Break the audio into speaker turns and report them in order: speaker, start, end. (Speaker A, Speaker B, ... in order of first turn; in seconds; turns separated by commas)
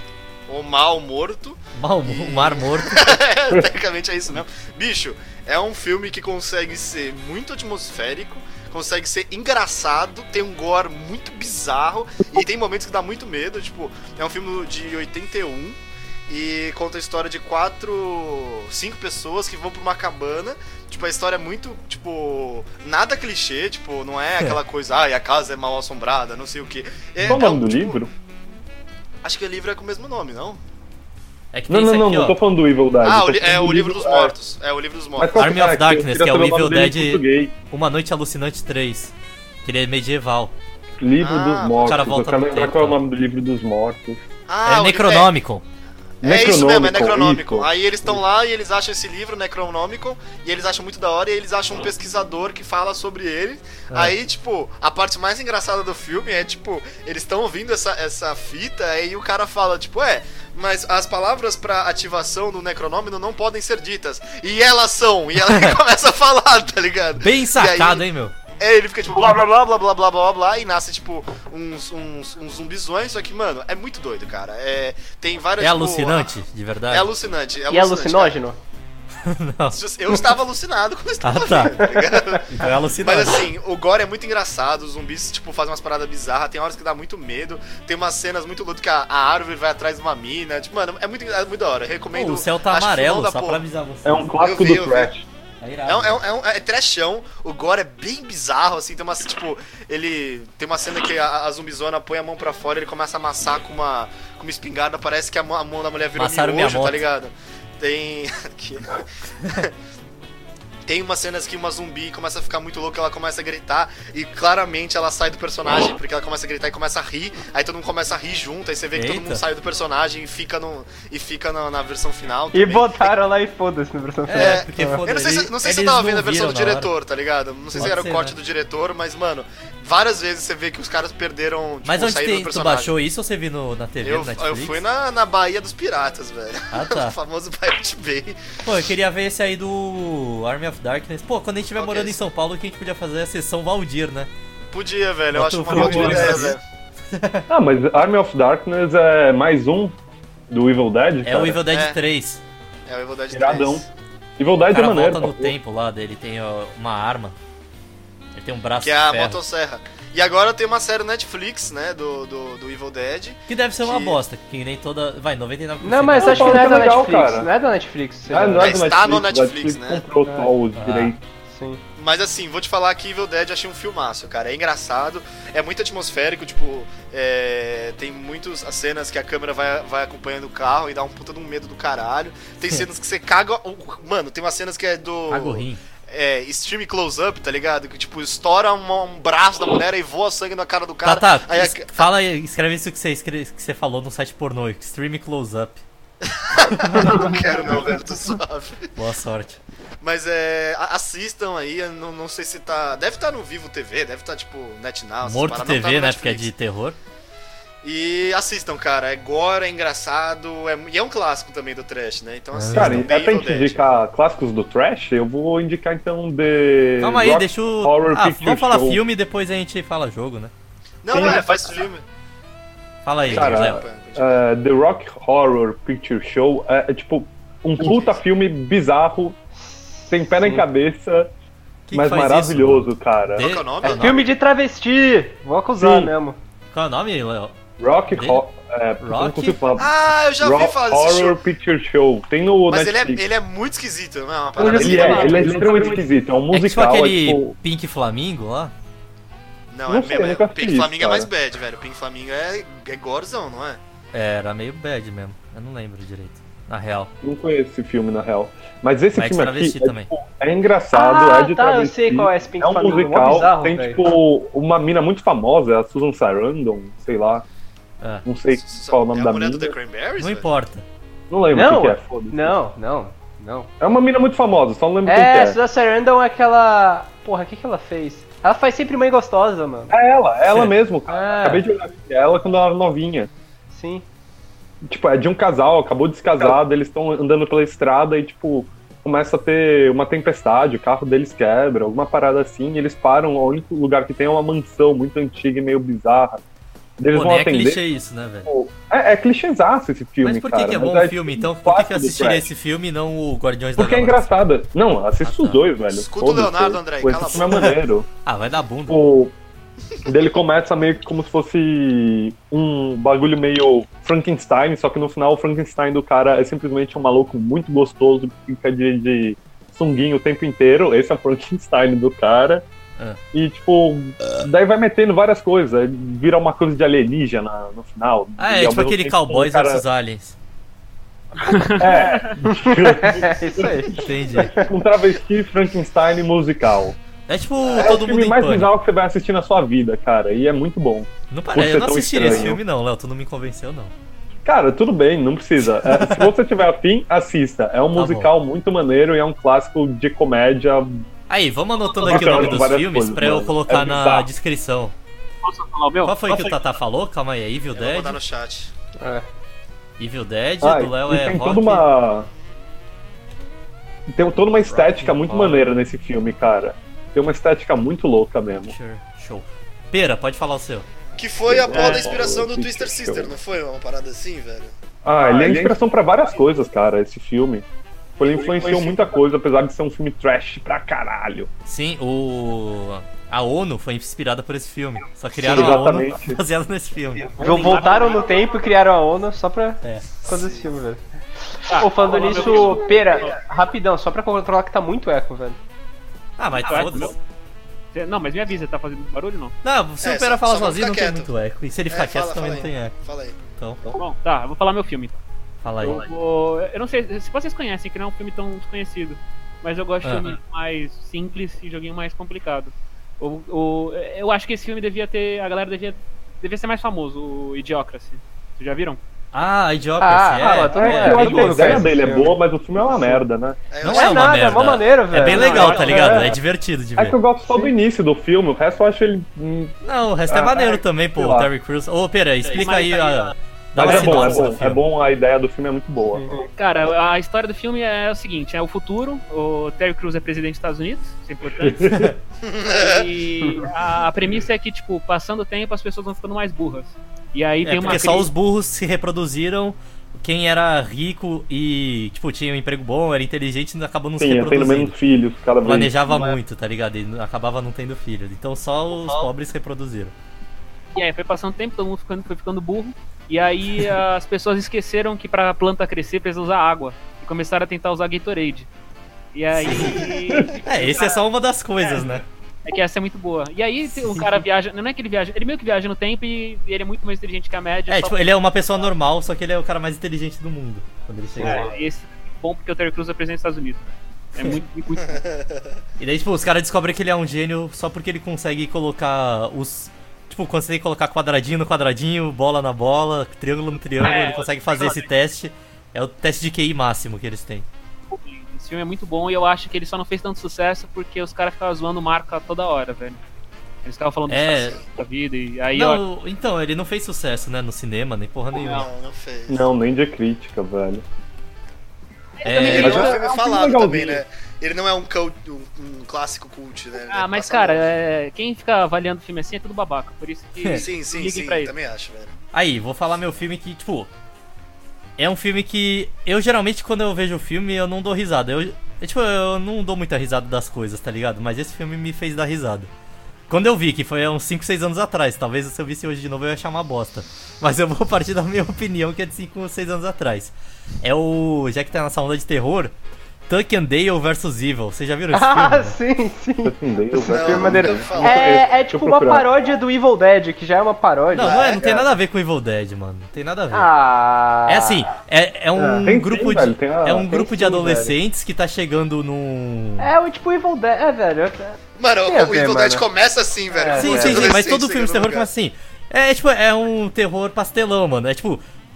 Speaker A: 0.5-28.0, Speaker B: 1.8-3.2, Speaker C: 27.2-28.1, Speaker A: 29.2-30.6, Speaker B: 31.5-32.4, Speaker C: 31.7-34.3, Speaker A: 33.0-35.5, Speaker C: 35.2-37.5, Speaker B: 35.4-39.1, Speaker B: 39.6-40.5, Speaker C: 41.0-44.2, Speaker A: 41.2-42.0, Speaker B: 41.9-43.0, Speaker A: 44.5-45.3, Speaker B: 44.7-45.6, Speaker A: 46.2-68.0, Speaker C: 46.2-48.2, Speaker B: 65.4-65.8, Speaker B: 67.2-68.3, Speaker A: 68.6-76.3, Speaker B: 75.6-77.1, Speaker A: 76.9-78.4, Speaker D: 77.7-78.6, Speaker B: 79.2-79.8, Speaker A: 79.7-93.6, Speaker B: 81.2-81.8, Speaker D: 81.7-82.4, Speaker B: 82.5-83.5, Speaker B: 92.1-94.3, Speaker C: 94.0-95.3, Speaker A: 94.4-95.1, Speaker B: 95.6-96.2, Speaker A: 95.9-109.7, Speaker B: 106.2-107.0, Speaker A: 110.9-123.1, Speaker B: 118.9-119.4, Speaker D: 122.5-125.0, Speaker B: 124.3-126.9, Speaker A: 124.3-132.9, Speaker B: 127.8-128.3, Speaker B: 131.8-134.8, Speaker A: 134.0-138.5, Speaker B: 136.7-137.2, Speaker B: 138.6-144.3, Speaker A: 141.8-142.2, Speaker A: 144.7-146.6, Speaker B: 145.3-146.6, Speaker C: 145.7-146.5, Speaker B: 147.1-147.4, Speaker C: 147.5-149.9, Speaker C: 150.5-151.6, Speaker B: 151.2-152.4, Speaker A: 151.7-152.0, Speaker A: 152.9-153.9, Speaker C: 153.3-153.8, Speaker C: 154.4-155.6, Speaker B: 154.7-157.3, Speaker B: 158.3-159.4, Speaker A: 158.8-164.2, Speaker B: 163.5-166.8, Speaker D: 165.8-168.8, Speaker C: 166.2-167.5, Speaker C: 168.3-171.2, Speaker A: 168.6-170.0, Speaker D: 170.2-170.5, Speaker B: 170.8-171.1, Speaker D: 171.5-171.8, Speaker A: 172.0-192.1, Speaker B: 185.3-185.8, Speaker B: 191.0-195.8, Speaker A: 196.2-198.9, Speaker B: 196.7-197.4, Speaker B: 199.0-199.6, Speaker A: 200.0-206.5, Speaker B: 205.2-207.0, Speaker A: 207.8-213.8, Speaker B: 212.5-213.1, Speaker C: 212.7-219.0, Speaker B: 217.0-220.5, Speaker A: 221.0-222.0, Speaker C: 221.1-221.5, Speaker B: 223.1-223.8, Speaker A: 223.2-224.4, Speaker C: 223.3-229.4, Speaker A: 227.8-228.2, Speaker D: 229.6-230.6, Speaker C: 230.1-231.3, Speaker B: 231.9-234.2, Speaker C: 231.9-233.5, Speaker A: 233.4-234.3, Speaker D: 233.8-236.4, Speaker C: 235.8-236.1, Speaker B: 236.7-237.5, Speaker C: 237.8-243.2, Speaker B: 238.1-238.4, Speaker B: 239.0-239.6, Speaker A: 239.8-241.4, Speaker A: 242.7-245.6, Speaker D: 244.6-246.1, Speaker E: 244.6-246.0, Speaker C: 244.6-247.6, Speaker B: 246.5-248.7, Speaker A: 249.7-253.8, Speaker C: 249.9-251.3, Speaker B: 254.1-257.1, Speaker C: 257.2-267.4, Speaker B: 259.1-260.1, Speaker D: 260.9-264.0, Speaker C: 268.2-269.8, Speaker A: 268.6-270.5, Speaker B: 270.2-270.9, Speaker C: 271.3-272.6, Speaker D: 271.5-273.7, Speaker C: 273.8-275.6, Speaker D: 275.1-279.9, Speaker C: 279.9-283.3, Speaker D: 281.1-281.6, Speaker D: 283.7-284.1, Speaker C: 284.8-296.4, Speaker C: 297.0-297.8, Speaker B: 297.1-298.5, Speaker C: 298.5-302.5, Speaker B: 300.2-304.3, Speaker C: 303.8-308.1, Speaker B: 305.2-305.6, Speaker A: 305.9-307.7, Speaker B: 307.3-309.0, Speaker C: 308.9-309.4, Speaker C: 310.1-322.6, Speaker C: 323.3-329.8, Speaker B: 328.4-330.4, Speaker E: 331.4-332.4, Speaker C: 331.7-334.0, Speaker D: 332.4-334.7, Speaker B: 333.9-334.6, Speaker C: 334.6-337.0, Speaker B: 337.3-338.7, Speaker A: 337.6-338.0, Speaker C: 337.8-342.6, Speaker B: 341.3-343.9, Speaker C: 344.4-351.1, Speaker B: 345.8-346.3, Speaker B: 347.9-348.3, Speaker B: 351.3-354.9, Speaker C: 352.0-354.3, Speaker E: 355.4-356.5, Speaker B: 356.1-358.2, Speaker A: 357.7-358.7, Speaker D: 359.0-359.2, Speaker B: 360.0-361.9, Speaker C: 360.6-362.3, Speaker C: 364.1-368.7, Speaker B: 364.6-365.7, Speaker B: 368.7-370.9, Speaker A: 371.1-374.7, Speaker C: 371.5-373.3, Speaker E: 371.7-372.1, Speaker C: 375.1-377.7, Speaker C: 378.2-381.5, Speaker A: 378.5-378.8, Speaker B: 381.7-387.6, Speaker C: 385.4-386.4, Speaker E: 387.4-388.3, Speaker D: 387.4-391.0, Speaker A: 390.2-390.6, Speaker D: 391.7-395.6, Speaker E: 391.7-393.4, Speaker B: 396.4-397.2, Speaker E: 396.5-397.2, Speaker E: 397.9-399.6, Speaker B: 399.6-402.9, Speaker A: 400.0-401.3, Speaker A: 401.9-403.4, Speaker B: 403.6-403.8, Speaker E: 403.9-405.2, Speaker B: 405.6-406.0, Speaker E: 405.8-419.0, Speaker B: 410.0-410.3, Speaker B: 419.3-421.9, Speaker D: 420.0-423.2, Speaker C: 420.7-423.6, Speaker A: 423.7-424.8, Speaker B: 423.8-427.2, Speaker D: 423.9-426.4, Speaker E: 425.1-426.3, Speaker C: 427.0-429.7, Speaker B: 429.8-434.8, Speaker C: 430.3-431.5, Speaker E: 432.4-433.4, Speaker C: 433.8-436.2, Speaker E: 433.9-434.5, Speaker D: 436.1-436.5, Speaker E: 436.6-442.0, Speaker C: 441.6-442.1, Speaker A: 442.4-443.1, Speaker E: 442.7-448.3, Speaker D: 443.4-443.7, Speaker B: 447.6-454.9, Speaker C: 454.2-456.1, Speaker B: 455.6-460.1, Speaker E: 460.9-468.7, Speaker E: 469.3-471.2, Speaker B: 469.6-472.2, Speaker E: 471.8-478.2, Speaker B: 477.9-481.7, Speaker E: 481.4-485.2, Speaker A: 485.1-485.7, Speaker B: 486.0-497.7, Speaker E: 494.0-495.1, Speaker E: 498.1-503.2, Speaker E: 503.8-506.0, Speaker B: 504.3-504.8, Speaker B: 505.7-508.9, Speaker E: 508.5-508.9, Speaker A: 508.7-509.7, Speaker C: 509.5-511.0, Speaker E: 512.4-513.2, Speaker B: 512.4-513.1, Speaker A: 512.6-517.9, Speaker C: 512.7-514.2, Speaker E: 517.1-521.7, Speaker A: 520.8-522.3, Speaker B: 522.5-524.1, Speaker B: 525.2-532.9, Speaker B: 533.5-542.9, Speaker B: 543.5-546.0, Speaker D: 545.3-552.0, Speaker C: 546.6-549.5, Speaker A: 547.3-548.8, Speaker B: 551.3-553.9, Speaker A: 551.4-552.0, Speaker D: 553.7-555.1, Speaker B: 554.7-560.1, Speaker D: 555.8-556.1, Speaker C: 556.0-557.4, Speaker D: 557.3-558.2, Speaker D: 560.0-563.1, Speaker A: 562.0-565.5, Speaker D: 563.7-564.6, Speaker B: 564.0-568.6